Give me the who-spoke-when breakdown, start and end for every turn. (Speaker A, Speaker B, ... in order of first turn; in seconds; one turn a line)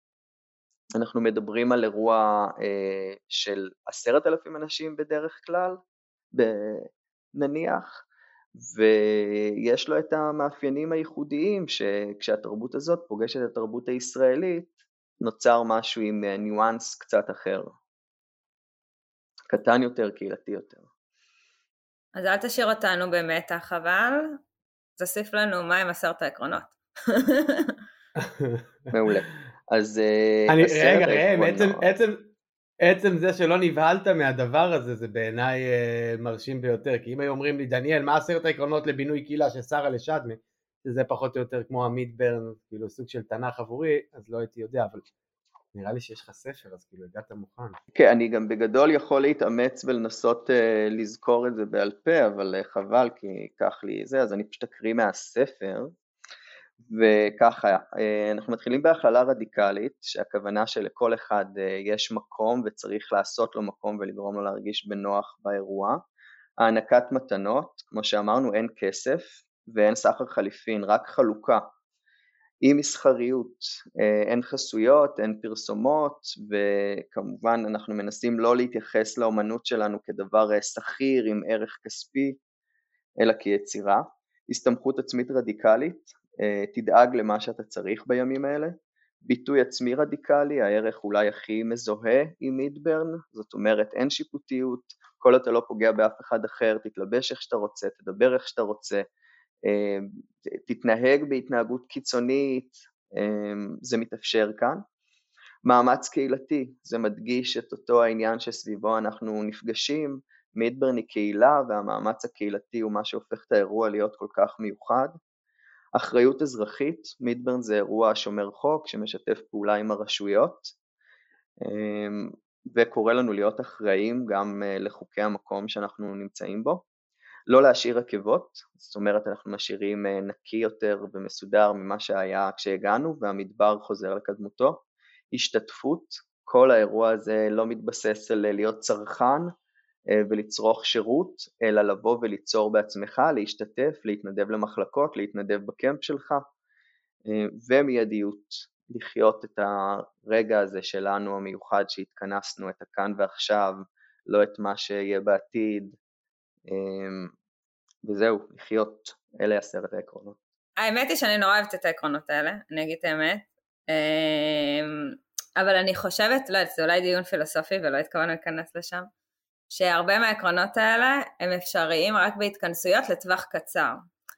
Speaker A: 1.0-5.8
Speaker A: 6.3-8.0
Speaker A: 8.6-17.8
Speaker A: 19.5-20.9
Speaker B: 22.1-24.4
Speaker B: 25.0-27.8
Speaker C: 28.2-28.6
Speaker A: 28.9-31.9
Speaker C: 30.5-32.3
Speaker C: 32.8-45.1
Speaker C: 45.7-47.8
Speaker A: 47.9-55.9
Speaker A: 56.9-66.0
Speaker A: 66.6-71.7
Speaker A: 72.6-82.4
Speaker A: 83.2-99.0
Speaker A: 99.7-104.8
Speaker A: 105.6-115.1
Speaker A: 116.0-120.7
Speaker A: 121.6-126.8
Speaker A: 127.5-139.5
Speaker A: 140.1-146.4
Speaker A: 147.3-156.0
Speaker A: 156.7-157.3
Speaker A: 158.0-160.4
Speaker B: 160.8-169.1
Speaker B: 169.7-174.0